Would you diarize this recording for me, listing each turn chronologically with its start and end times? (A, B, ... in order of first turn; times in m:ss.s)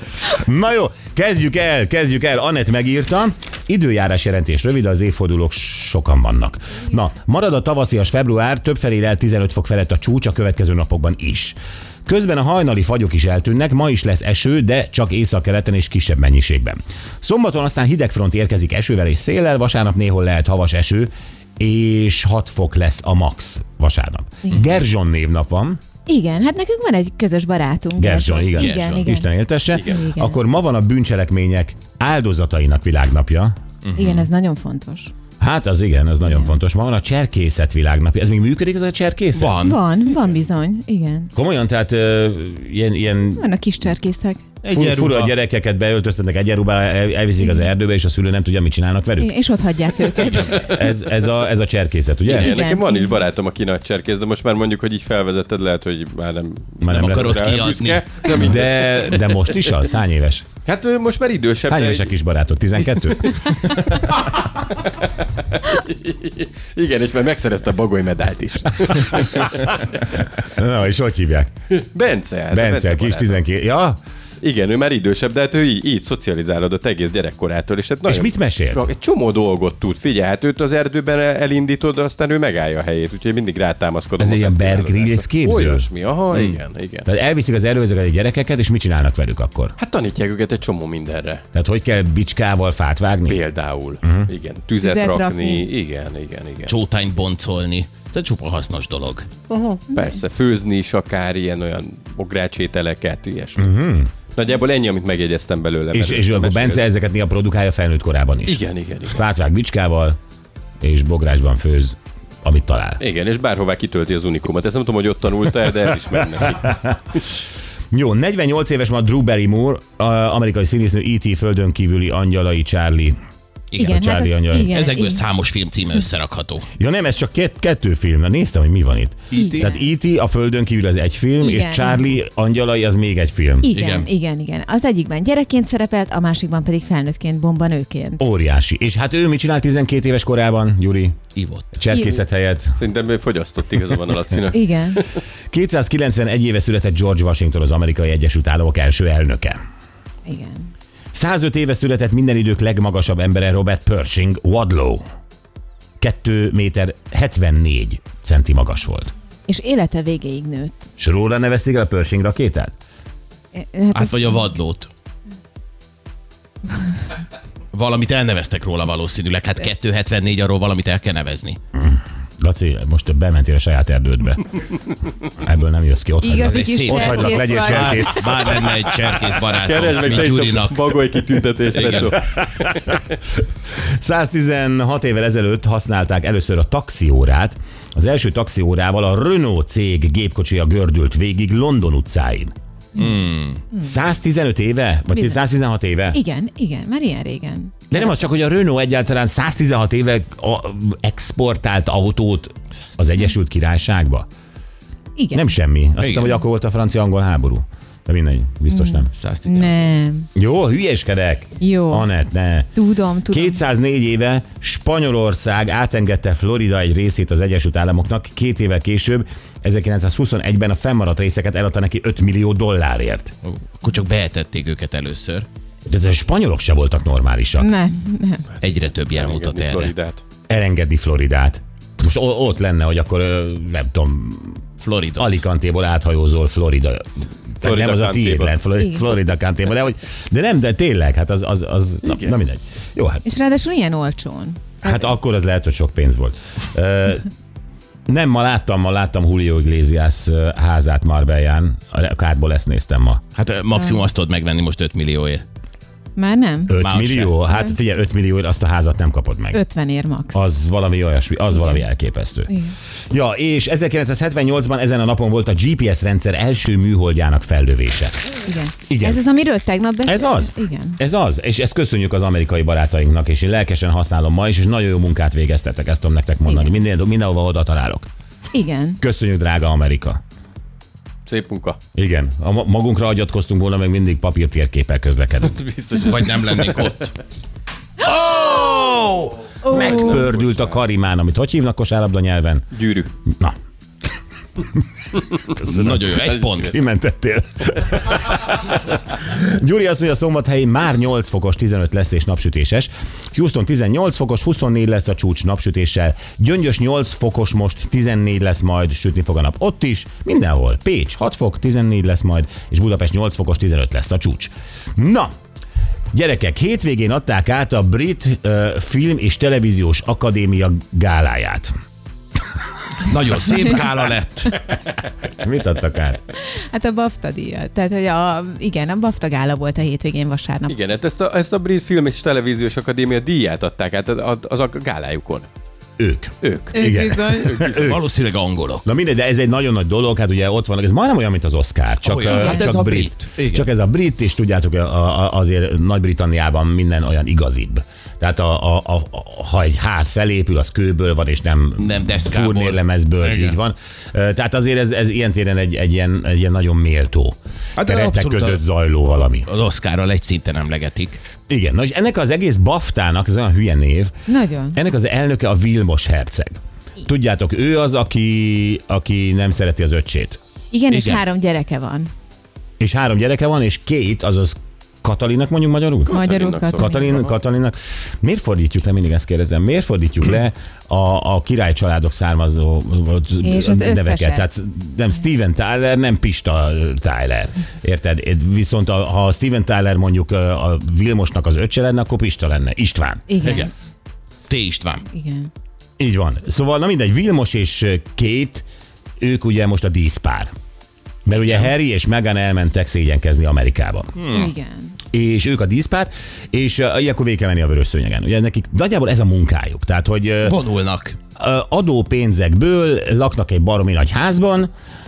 0:00.2-0:25.8 A
0:26.0-0:29.3 B
0:28.0-0:33.5 A
0:28.6-0:29.1 C
0:29.7-0:30.0 D
0:29.8-0:30.4 B
0:33.8-0:34.3 C
0:34.0-0:35.1 B
0:35.4-0:39.5 A
0:39.4-0:39.8 C
0:39.6-0:41.3 B
0:41.3-0:43.5 A
0:43.3-0:44.4 B
0:44.6-0:45.3 C
0:44.7-0:49.3 A
0:49.2-0:50.7 B
0:50.2-0:52.6 A
0:52.2-0:59.7 D
0:52.3-0:53.2 B
0:56.8-0:57.6 A
0:56.8-0:58.6 C
0:58.3-1:00.4 A
1:00.6-1:02.1 D
1:01.7-1:03.6 A
1:03.1-1:10.0 D
1:10.4-1:11.5 A
1:11.7-1:13.4 D
1:12.5-1:14.0 A
1:14.4-1:27.1 D
1:18.0-1:18.9 A
1:24.2-1:25.9 A
1:26.3-1:26.6 C
1:27.0-1:29.7 A
1:29.8-1:31.4 D
1:31.5-1:33.4 A
1:33.3-1:36.8 D
1:34.0-1:34.3 A
1:34.8-1:35.7 B
1:36.7-1:39.3 C
1:39.5-1:43.7 D
1:43.6-1:44.1 A
1:44.3-1:46.8 D
1:45.9-1:50.2 A
1:48.4-1:49.2 D
1:50.8-1:53.0 A
1:53.0-1:56.8 D
1:56.6-1:56.9 A
1:57.9-2:03.2 A
2:03.8-2:05.2 B
2:03.8-2:04.8 A
2:04.6-2:06.7 C
2:06.8-2:13.7 A
2:09.3-2:09.7 C
2:09.4-2:09.8 B
2:11.4-2:12.0 B
2:13.6-2:18.2 B
2:13.7-2:14.1 C
2:18.2-2:21.2 A
2:21.4-2:21.8 C
2:21.7-2:22.8 A
2:22.8-2:25.1 D
2:24.5-2:25.0 B
2:25.5-2:29.6 A
2:30.2-2:30.7 B
2:31.1-2:35.0 A
2:36.0-2:39.1 A
2:39.5-2:40.8 B
2:41.0-2:42.7 A
2:43.5-2:44.5 B
2:43.9-2:44.9 C
2:47.7-2:51.6 C
2:51.8-2:54.6 A
2:55.3-2:58.6 A
2:56.2-2:58.6 B
2:56.5-3:01.0 C
2:59.4-3:03.0 D
3:01.5-3:02.1 C
3:03.7-3:12.5 A
3:13.0-3:13.6 C
3:13.7-3:16.2 A
3:15.1-3:15.4 B
3:16.1-3:18.0 B
3:17.9-3:24.3 A
3:25.2-3:25.5 B
3:25.3-3:29.1 A
3:26.0-3:26.3 C
3:28.7-3:30.3 B
3:29.1-3:29.9 C
3:30.4-3:32.7 A
3:31.6-3:32.1 B
3:32.7-3:33.6 B
3:33.3-3:43.3 A
3:43.4-3:45.5 C
3:45.9-3:47.7 A
3:47.6-3:48.5 B
3:48.6-3:49.9 C
3:49.1-3:50.2 D
3:50.5-3:54.6 A
3:54.8-3:55.4 C
3:55.2-4:03.2 A
3:57.6-3:58.5 D
3:58.8-3:59.0 B
4:03.2-4:05.1 B
4:04.8-4:07.3 A
4:08.1-4:13.2 A
4:13.3-4:15.4 C
4:16.2-4:16.8 B
4:16.7-4:19.6 A
4:16.8-4:17.3 C
4:19.5-4:20.4 B
4:20.3-4:22.6 A
4:22.5-4:22.7 B
4:23.1-4:28.1 A
4:28.4-4:31.0 B
4:28.9-4:29.2 A
4:30.0-4:38.1 A
4:36.4-4:36.7 B
4:38.5-4:39.0 B
4:39.0-4:40.2 A
4:41.3-4:41.8 D
4:41.9-4:45.6 A
4:45.5-4:47.0 D
4:46.0-4:47.1 C
4:48.0-4:52.6 A
4:52.7-4:53.1 D
4:53.3-4:53.5 A
4:55.2-5:15.3 A
4:55.5-4:56.8 C
5:16.1-5:21.7 A
5:23.0-5:24.7 C
5:25.3-5:26.2 A
5:26.5-5:30.8 B
5:30.7-5:35.5 D
5:36.0-5:38.0 A
5:36.4-5:38.0 D
5:36.7-5:37.6 B
5:37.8-5:38.9 C
5:38.8-5:59.5 A
5:42.0-5:43.7 C
5:42.3-5:42.7 B
5:51.8-5:53.6 C
5:57.8-5:58.6 C
5:59.4-6:01.2 C
6:01.5-6:04.1 A
6:04.3-6:04.8 B
6:04.7-6:10.4 A
6:10.7-6:12.1 B
6:10.9-6:11.2 C
6:12.8-6:16.2 A
6:16.1-6:17.2 B
6:16.1-6:17.3 D
6:16.7-6:33.3 A
6:23.4-6:24.5 B
6:33.3-6:33.7 B
6:33.4-6:33.7 C
6:34.5-6:35.0 C
6:35.1-6:35.5 B
6:36.0-6:38.6 A
6:39.2-6:40.5 A
6:41.2-6:44.1 A
6:44.2-6:44.5 C
6:44.3-6:45.0 B
6:45.1-6:50.6 A
6:50.4-6:51.2 C
6:51.4-6:54.7 A